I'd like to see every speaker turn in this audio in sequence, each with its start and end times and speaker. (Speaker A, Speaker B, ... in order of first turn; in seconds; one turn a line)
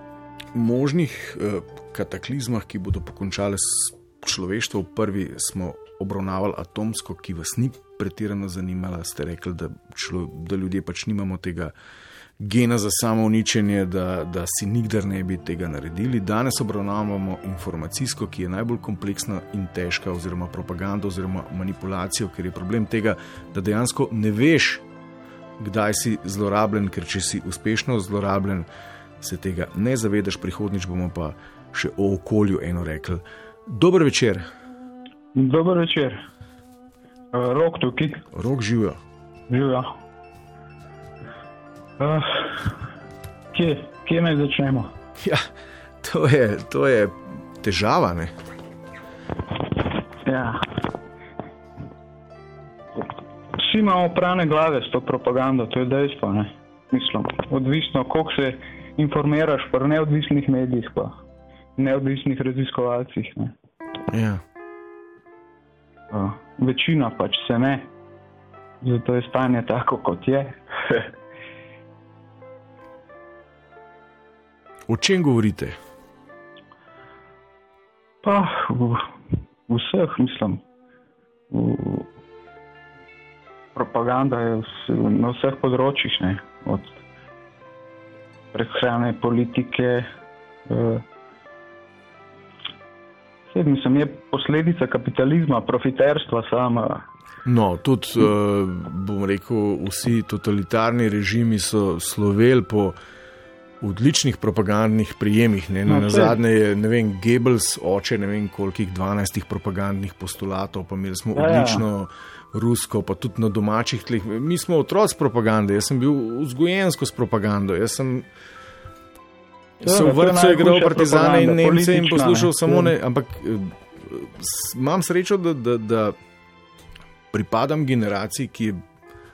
Speaker A: 0.5-11.7
Speaker A: 12.4-24.8
Speaker A: 25.6-28.7
Speaker A: 29.2-34.5
Speaker B: 35.3-36.2
Speaker B: 37.3-38.2
Speaker A: 38.3-39.0
Speaker B: 39.5-40.0
Speaker B: 42.0-42.8
Speaker B: 43.5-44.9
Speaker A: 45.2-45.5
Speaker A: 46.0-48.3
Speaker B: 50.2-50.6
Speaker B: 53.6-61.2
Speaker B: 61.8-63.5
Speaker A: 64.1-64.4
Speaker B: 66.1-67.9
Speaker B: 68.8-71.1
Speaker A: 74.9-75.8
Speaker B: 78.2-79.1
Speaker B: 79.7-80.6
Speaker B: 81.5-82.1
Speaker B: 83.7-87.0
Speaker B: 88.5-90.1
Speaker B: 90.7-91.0
Speaker B: 93.5-97.0
Speaker A: 97.4-103.0
Speaker A: 103.8-118.2
Speaker B: 105.9-106.4
Speaker B: 111.3-111.8
Speaker A: 119.8-126.2
Speaker B: 119.8-122.9
Speaker A: 127.3-128.8